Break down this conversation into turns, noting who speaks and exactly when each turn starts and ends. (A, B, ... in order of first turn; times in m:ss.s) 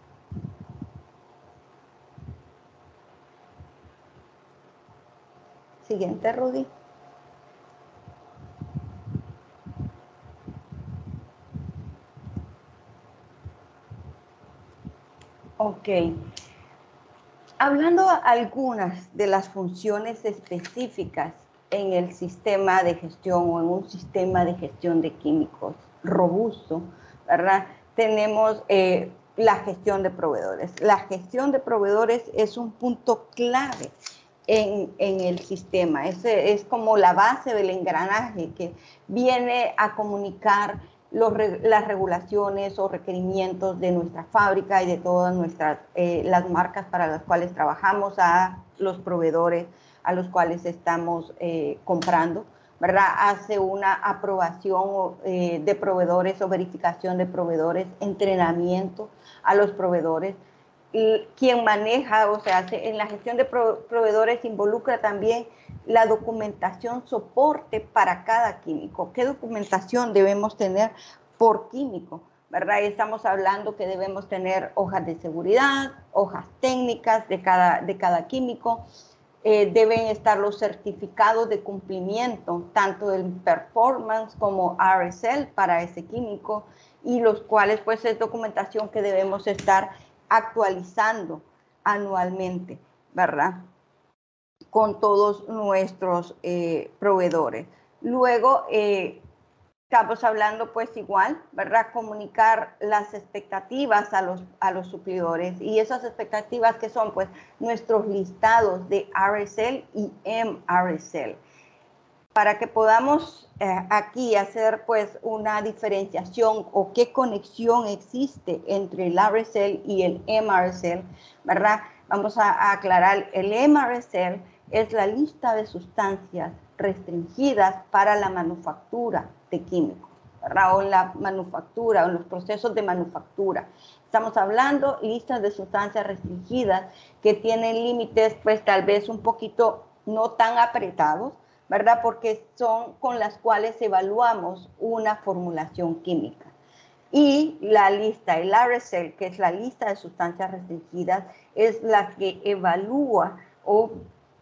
0:05.8-0:06.7 A
0:15.6-0:16.1 A
0:17.6-0:33.9 A
0:34.5-1:00.4 A
1:00.9-1:18.8 A
1:19.4-1:33.6 A
1:34.7-1:39.2 A
1:39.9-1:51.4 A
1:52.3-2:26.5 A
2:27.1-2:34.0 A